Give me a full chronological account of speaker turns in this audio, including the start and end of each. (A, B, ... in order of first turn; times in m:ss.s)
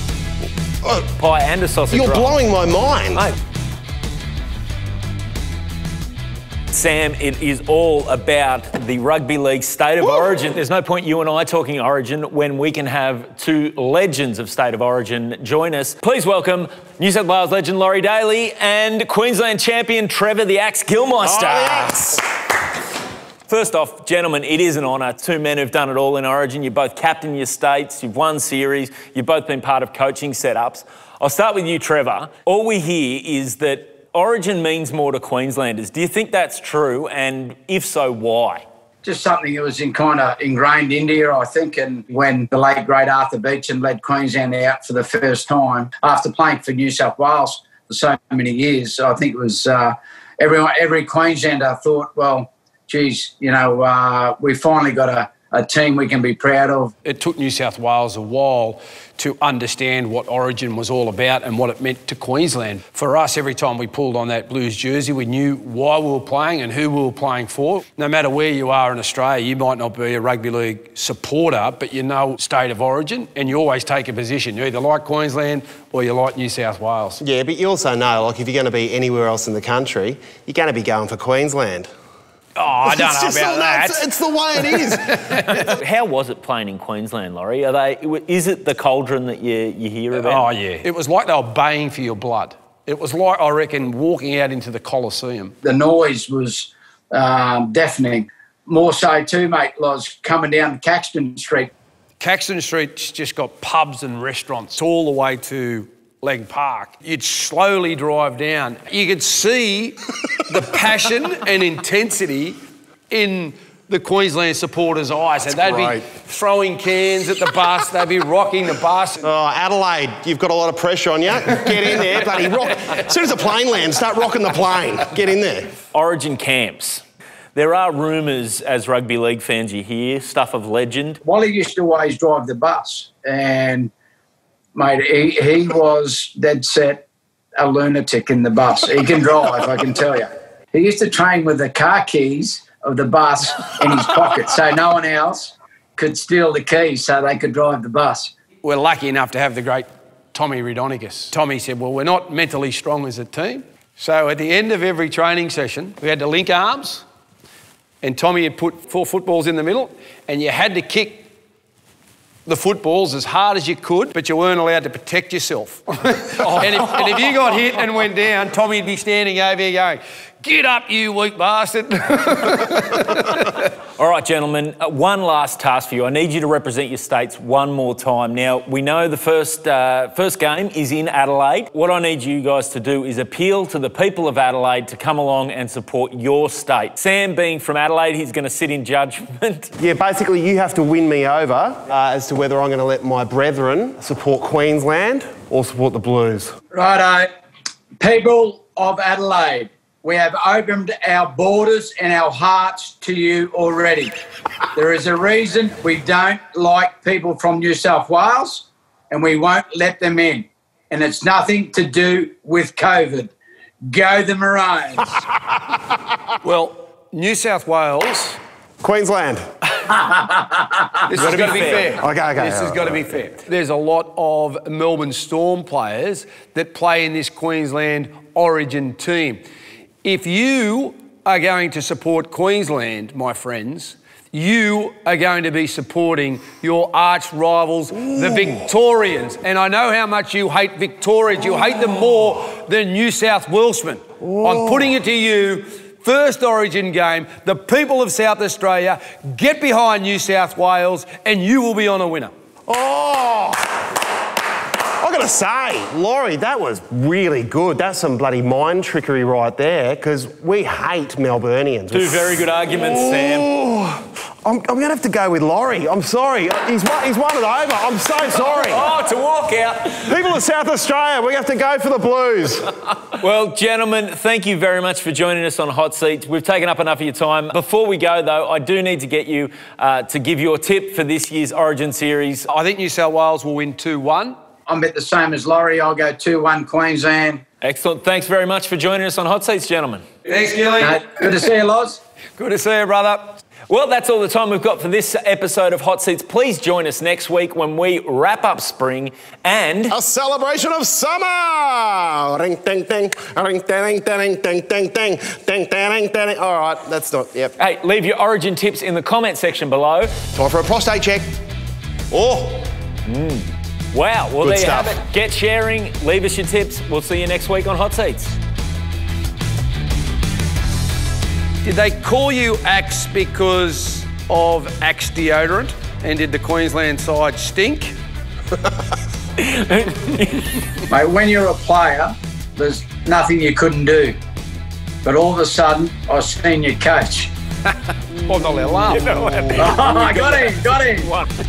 0:01.1-0:02.4 A
0:01.9-0:03.3 B
0:06.7-0:22.3 A
0:21.2-0:22.2 B
0:23.5-0:38.6 A
0:39.0-0:56.9 C
0:57.0-1:17.2 D
1:17.2-1:21.9 B
1:22.6-1:24.1 D
1:22.8-1:25.2 B
1:24.6-1:25.7 D
1:25.5-1:30.5 A
1:30.1-1:35.5 D
1:35.6-1:41.7 C
1:42.2-1:59.3 D
1:55.5-1:56.0 B
1:59.2-2:05.7 B
2:05.9-2:07.0 A
2:07.6-2:11.2 A
2:11.2-2:13.9 C
2:14.8-2:17.0 C
2:17.6-2:28.3 C
2:28.6-2:37.0 D
2:38.0-2:41.3 D
2:42.5-2:53.7 D
2:54.0-3:09.8 A
3:09.8-3:16.5 B
3:16.7-3:17.3 C
3:18.0-3:24.1 C
3:24.8-3:33.3 C
3:33.9-3:35.1 C
3:35.3-3:36.1 B
3:36.4-3:38.4 D
3:38.8-3:39.4 B
3:39.9-3:40.9 C
3:41.1-3:49.4 D
3:41.2-3:42.0 A
3:41.2-3:43.1 B
3:50.0-4:12.3 D
4:04.2-4:05.0 B
4:12.7-4:13.8 B
4:15.0-4:28.9 B
4:21.9-4:23.5 A
4:28.3-4:30.4 A
4:30.1-4:32.7 B
4:33.1-4:42.5 A
4:42.5-4:44.4 D
4:44.7-4:47.4 C
4:47.6-4:50.0 A
4:50.3-4:51.5 D
4:50.8-4:52.0 C
4:52.4-4:53.5 D
4:53.5-5:00.0 A
4:59.9-5:07.6 B
5:07.6-5:10.2 A
5:10.3-5:11.3 B
5:12.1-5:12.7 B
5:13.1-5:18.4 A
5:14.4-5:14.9 B
5:21.6-5:28.0 D
5:29.4-5:30.7 A
5:30.9-5:34.2 C
5:35.0-5:37.3 C
5:38.3-5:39.6 D
5:38.9-5:40.4 A
5:39.6-5:41.1 C
5:41.0-5:41.3 A